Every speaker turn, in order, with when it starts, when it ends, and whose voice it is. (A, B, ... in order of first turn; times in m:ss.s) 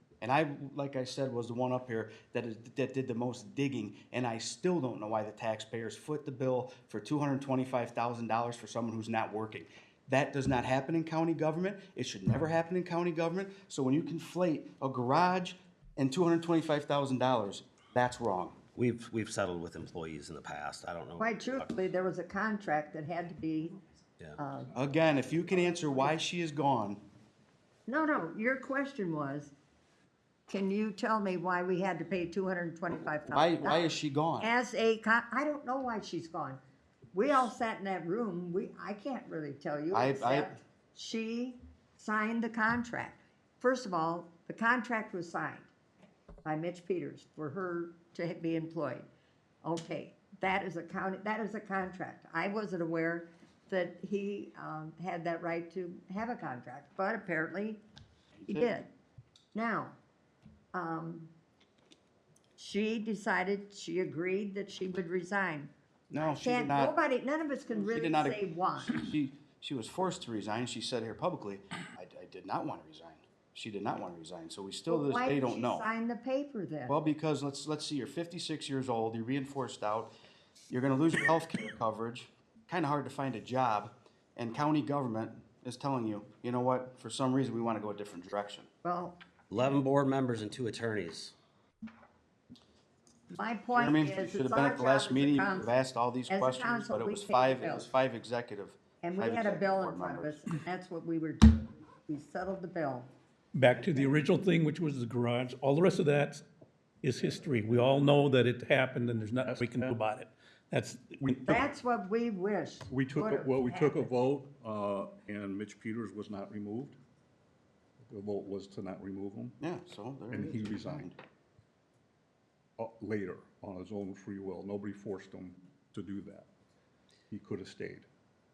0:00.2-0:18.6 A
0:18.7-0:21.7 B
0:21.2-0:23.8 C
0:24.4-0:24.7 C
0:24.7-0:27.0 A
0:27.9-0:29.5 C
0:30.5-0:36.6 C
0:33.2-0:34.5 A
0:37.1-0:45.7 C
0:39.9-0:40.5 A
0:46.4-0:49.1 C
0:49.6-0:57.8 C
0:58.5-0:58.9 C
0:59.5-1:00.0 C
1:00.7-1:01.3 C
1:02.6-1:09.0 C
1:06.1-1:06.9 A
1:07.7-1:15.8 A
1:14.9-1:16.9 C
1:16.9-1:20.1 A
1:20.7-1:28.7 A
1:28.8-1:29.2 C
1:29.5-1:31.3 B
1:33.3-1:35.7 C
1:33.7-1:40.4 A
1:36.3-1:37.9 C
1:39.0-1:43.1 C
1:43.5-1:46.4 D
1:47.0-1:51.3 D
1:49.4-1:50.0 E
1:51.2-1:51.7 E
1:51.5-1:54.1 C
1:52.9-1:57.0 E
1:58.1-1:59.6 E
1:59.6-2:01.2 A
2:00.3-2:01.1 E
2:02.8-2:06.5 E
2:07.3-2:08.1 E